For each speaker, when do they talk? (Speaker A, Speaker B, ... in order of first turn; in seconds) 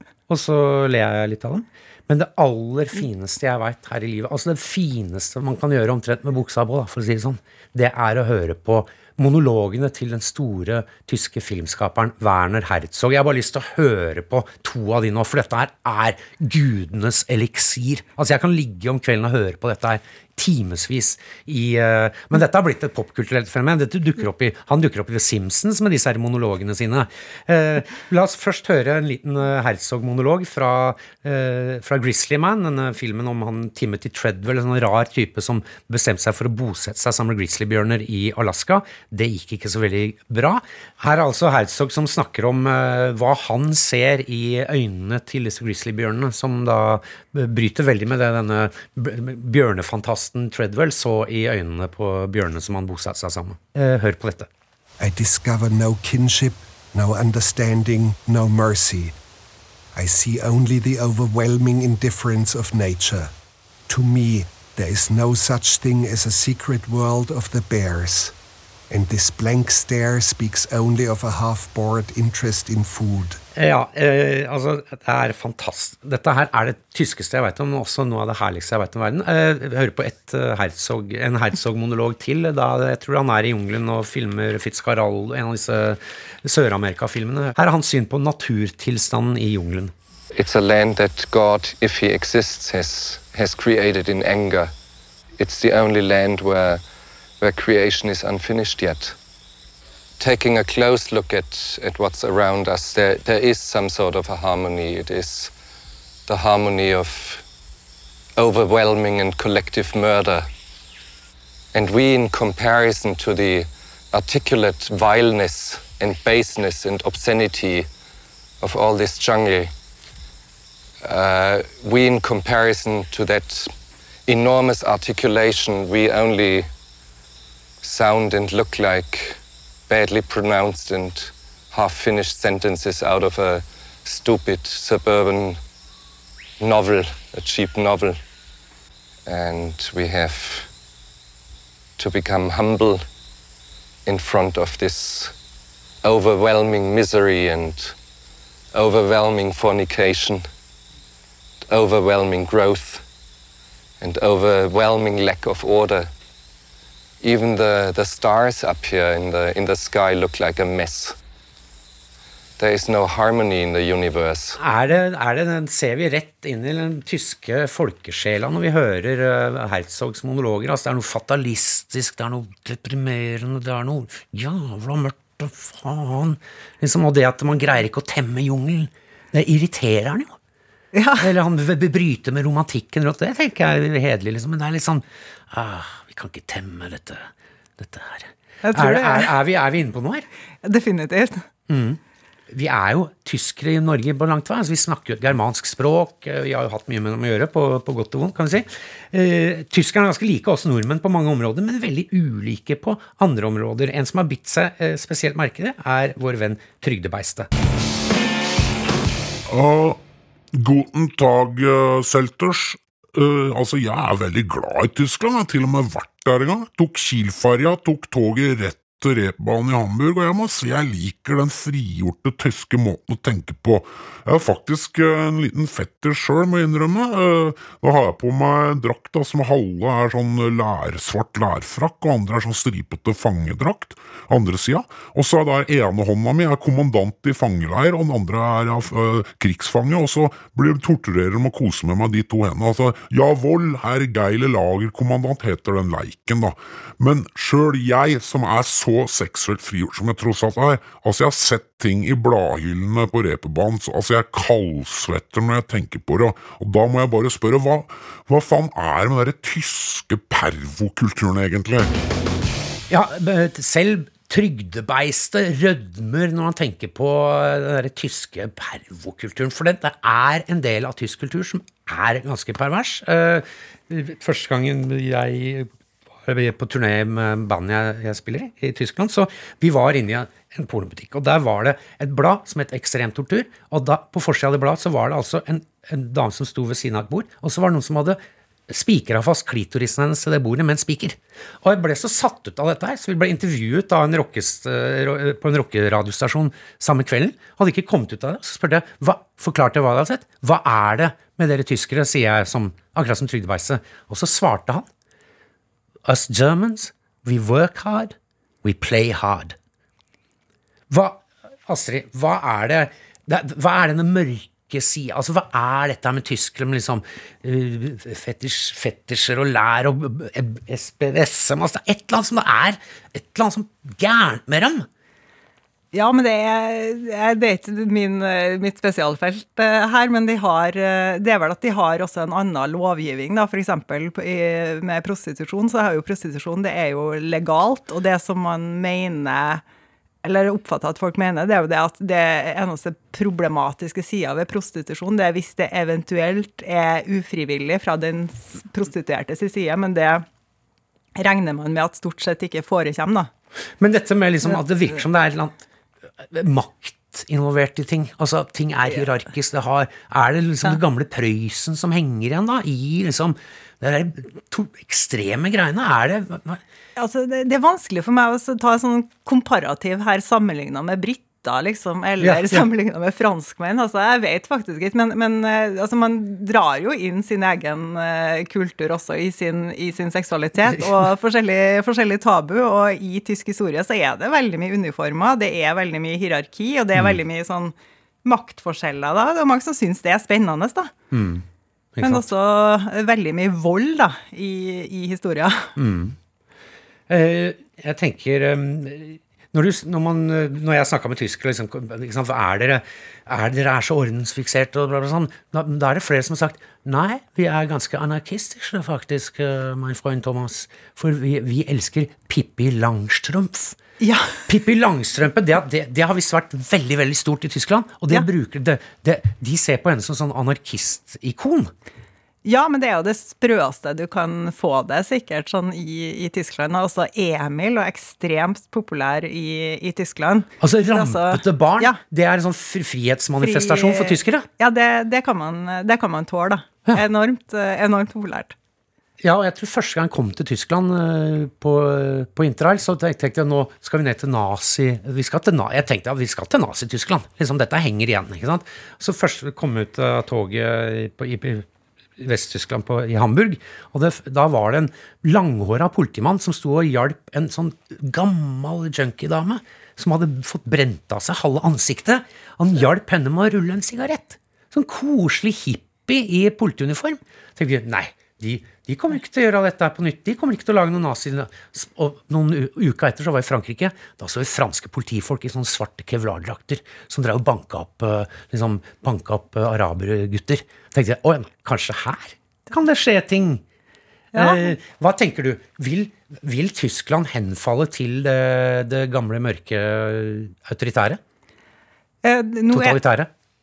Speaker A: 0.3-54.5, 73.5-89.9, 164.6-180.4, 181.2-190.3, 191.7-192.0, 192.5-207.5, 262.9-275.7, 276.2-304.9, 306.1-309.6, 310.9-324.9, 353.8-355.6, 356.2-366.6, 372.2-372.6, 391.1-391.4, 392.0-392.2, 395.8-396.2, 397.1-413.8, 414.5-421.7, 430.6-434.4, 439.2-451.7, 452.2-483.6, 484.3-491.2, 492.7-493.3
Speaker B: 55.0-59.1, 60.0-63.3, 63.9-68.3, 68.9-73.4
Speaker C: 90.3-94.7, 95.4-96.8, 97.4-99.2, 100.2-105.5, 106.3-107.4, 108.4-110.5, 111.7-117.9, 118.6-119.7, 121.0-123.7, 124.3-126.7, 127.8-135.6, 136.6-138.2, 139.3-140.7, 142.0-143.0, 144.1-145.3, 146.0-147.9, 148.7-150.5, 151.7-153.0, 154.0-156.1, 157.2-161.2, 162.6-164.6
Speaker D: 180.9-181.3, 188.6-189.3, 190.6-191.4, 325.9-339.6, 340.2-350.2, 351.2-353.3, 366.9-390.9, 392.0-395.7, 414.0-414.4, 422.4-432.0, 433.4-438.6, 484.3-484.7, 492.2-493.0
Speaker E: 209.5-210.0, 210.5-261.9